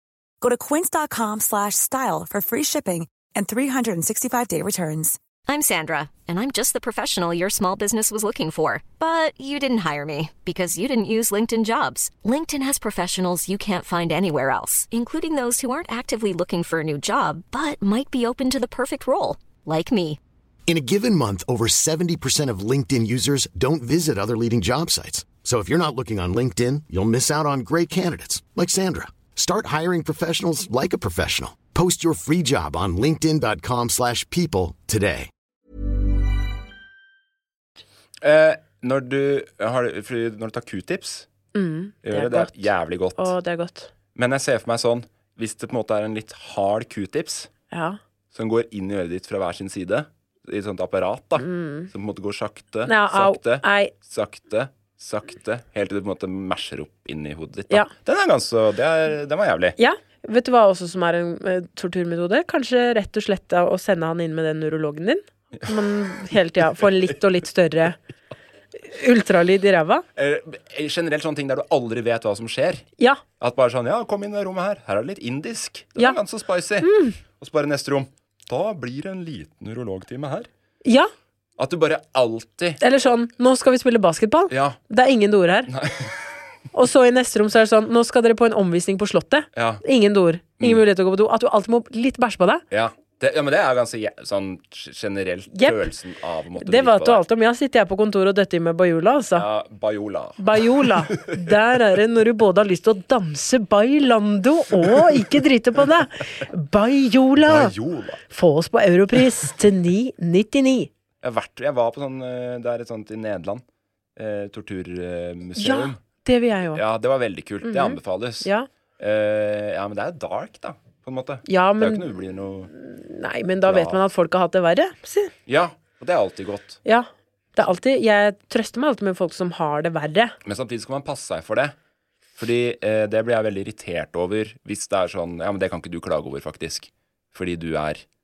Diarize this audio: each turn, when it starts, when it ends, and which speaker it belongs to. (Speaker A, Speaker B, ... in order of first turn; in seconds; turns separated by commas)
Speaker A: 0.4-5.2, Speaker B: 5.5-20.2, Speaker C: 20.7-35.3, Speaker D: 38.2-41.3, Speaker E: 41.5-43.9, Speaker D: 42.0-43.4, Speaker D: 44.1-47.5, Speaker E: 47.7-48.0, Speaker D: 48.3-59.8, Speaker E: 51.4-51.9, Speaker E: 52.9-53.9, Speaker E: 59.8-68.0, Speaker E: 68.8-70.0, Speaker D: 70.2-72.8, Speaker D: 73.4-80.5, Speaker E: 76.8-77.2, Speaker E: 80.8-81.1, Speaker D: 81.6-82.8, Speaker E: 82.8-85.7, Speaker D: 84.5-84.8, Speaker D: 85.7-86.2, Speaker E: 86.7-92.6, Speaker D: 89.5-89.8, Speaker D: 92.7-97.2, Speaker E: 95.5-95.9, Speaker E: 96.6-99.4, Speaker D: 99.4-101.5, Speaker E: 100.4-107.7, Speaker D: 107.4-108.2, Speaker E: 108.3-110.9, Speaker D: 111.2-113.6, Speaker D: 114.2-116.0, Speaker E: 115.6-116.8, Speaker D: 116.8-118.5, Speaker E: 117.6-118.7, Speaker D: 119.0-122.7, Speaker E: 121.5-122.0, Speaker E: 122.7-125.3, Speaker D: 123.7-124.0, Speaker D: 125.5-126.8, Speaker E: 126.8-130.4, Speaker D: 130.4-131.8, Speaker D: 132.4-138.0